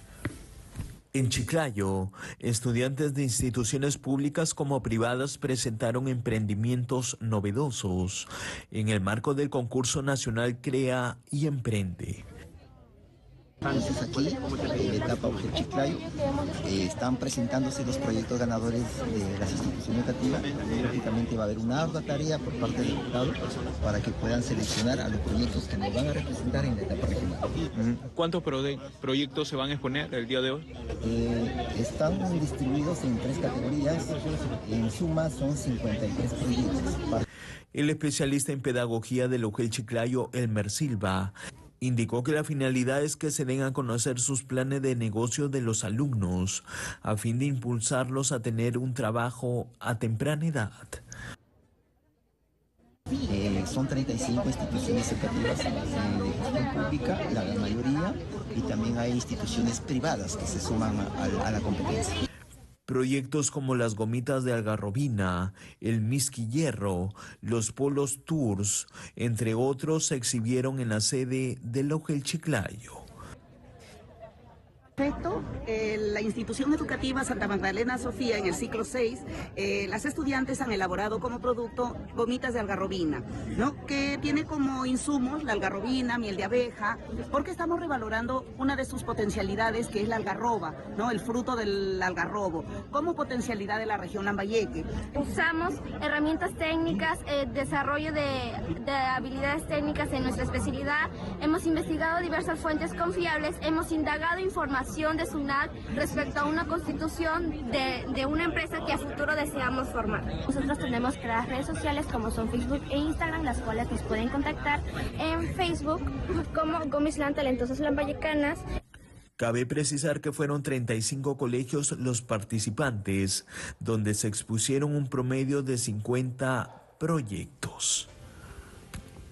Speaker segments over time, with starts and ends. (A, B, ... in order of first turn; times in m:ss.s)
0:01.1-0:12.2 A
0:13.7-0:16.1 B
0:16.6-0:27.5 B
0:27.8-0:30.6 C
0:31.0-0:37.2 B
0:37.7-0:51.0 A
0:53.3-1:02.2 B
1:02.9-1:13.1 A
1:15.0-1:34.9 D
1:35.1-1:58.6 E
1:59.4-2:08.1 A